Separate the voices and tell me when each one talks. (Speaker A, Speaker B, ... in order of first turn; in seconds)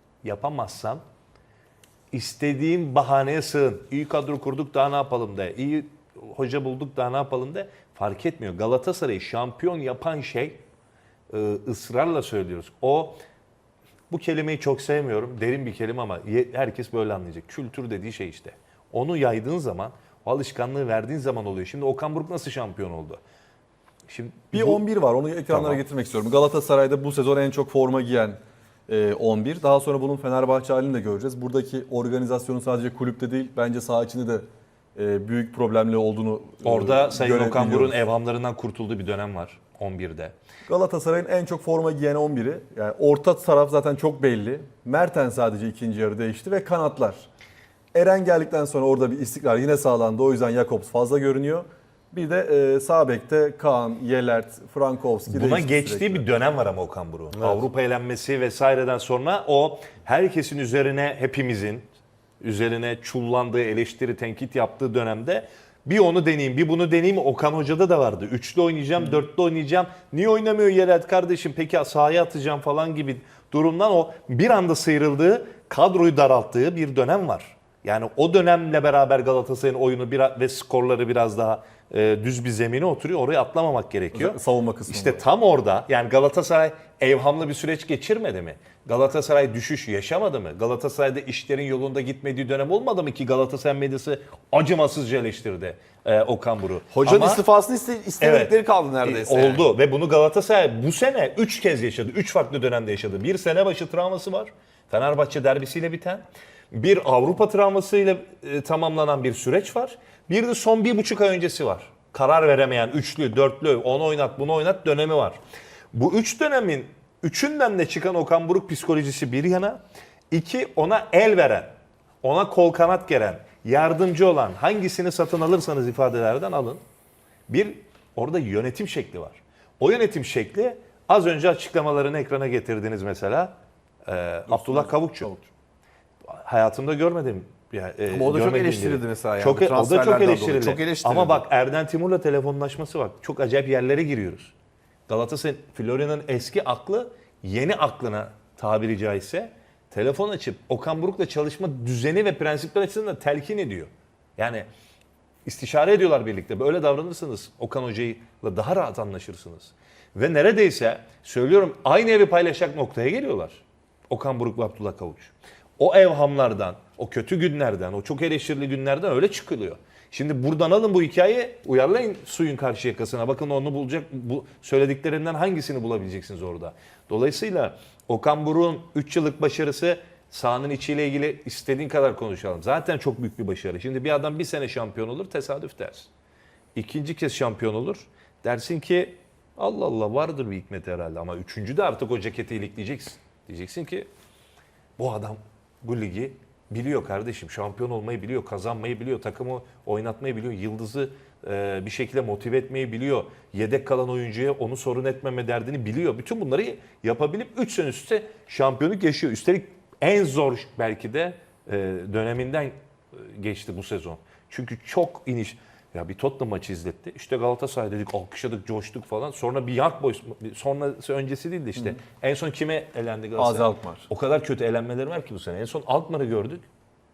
Speaker A: 0.2-1.0, 2.1-10.6, 11.3-13.2, 14.1-23.2, 24.1-24.8, 25.5-25.8, 36.6-40.3, 55.3-61.9, 62.4-97.4, 98.2-115.4, 115.9-119.8, 120.3-126.8, 127.5-133.5, 134.1-135.3, 136.3-144.5, 145.1-154.7, 155.4-186.1, 186.7-194.1, 195.0-226.7
Speaker B: 24.5-38.0, 40.7-47.3, 47.9-56.2, 84.1-85.2, 134.5-135.5, 223.3-224.0
Speaker C: 96.9-99.7, 138.1-141.4